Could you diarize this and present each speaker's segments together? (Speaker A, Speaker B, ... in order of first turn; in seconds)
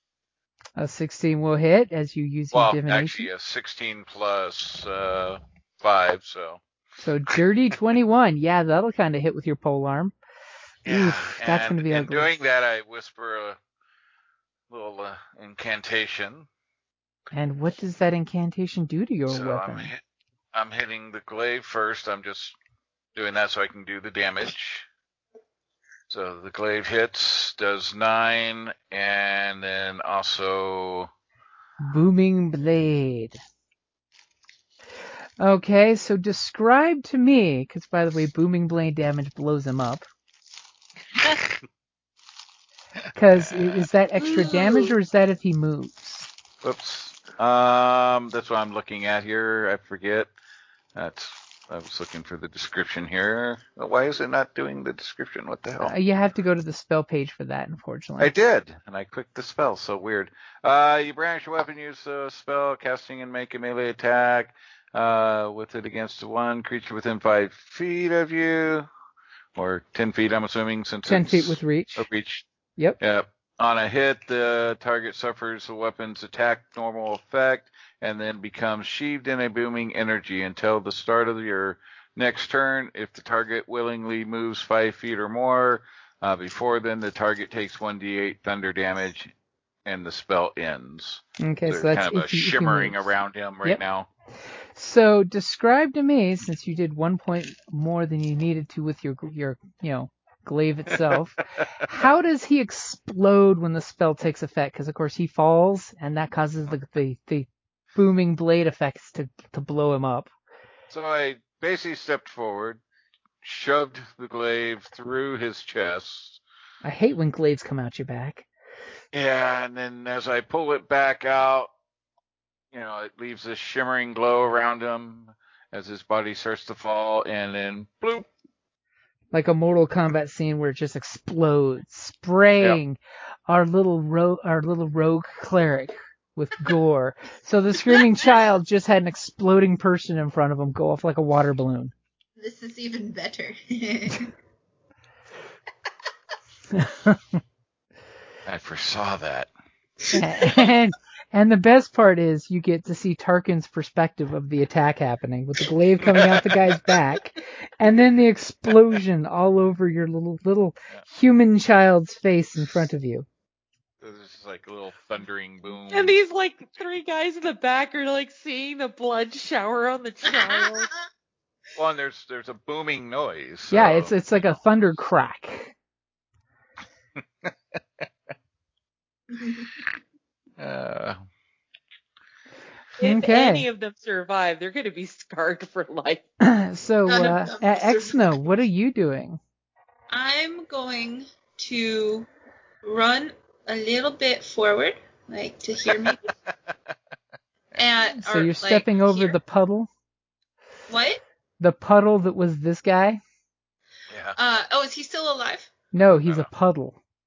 Speaker A: 0.8-3.3, 7.0-10.1, 10.9-12.3, 17.3-19.9, 31.8-33.4, 35.4-40.0, 43.1-46.3, 55.8-58.3, 71.1-72.1, 91.4-93.8, 94.8-110.3, 116.8-118.5, 129.3-141.9, 146.7-147.4, 150.2-163.3, 173.7-175.7, 183.0-183.7, 186.4-189.4, 198.2-199.9, 201.6-203.2, 205.9-207.0
Speaker B: 2.5-6.6, 10.8-13.6, 14.7-16.5, 19.3-20.0, 20.5-22.6, 23.1-24.9, 26.1-31.1, 41.3-41.6, 43.4-43.8, 46.6-50.3, 51.0-55.9, 58.2-68.9, 69.5-72.5, 73.0-89.3, 89.8-94.1, 110.9-112.8, 113.4-116.4, 119.1-121.7, 122.7-128.3, 148.5-149.5, 156.1-156.4, 164.0-166.2, 171.8-174.2, 180.6-181.2, 196.0-196.9, 204.1-204.4
Speaker C: 44.3-44.9, 142.4-144.3, 170.3-171.0, 179.3-179.7, 187.1-188.4, 190.1-192.3, 192.8-196.3, 197.8-199.4, 200.9-201.2, 204.4-205.7
Speaker D: 165.9-170.9, 183.0-186.2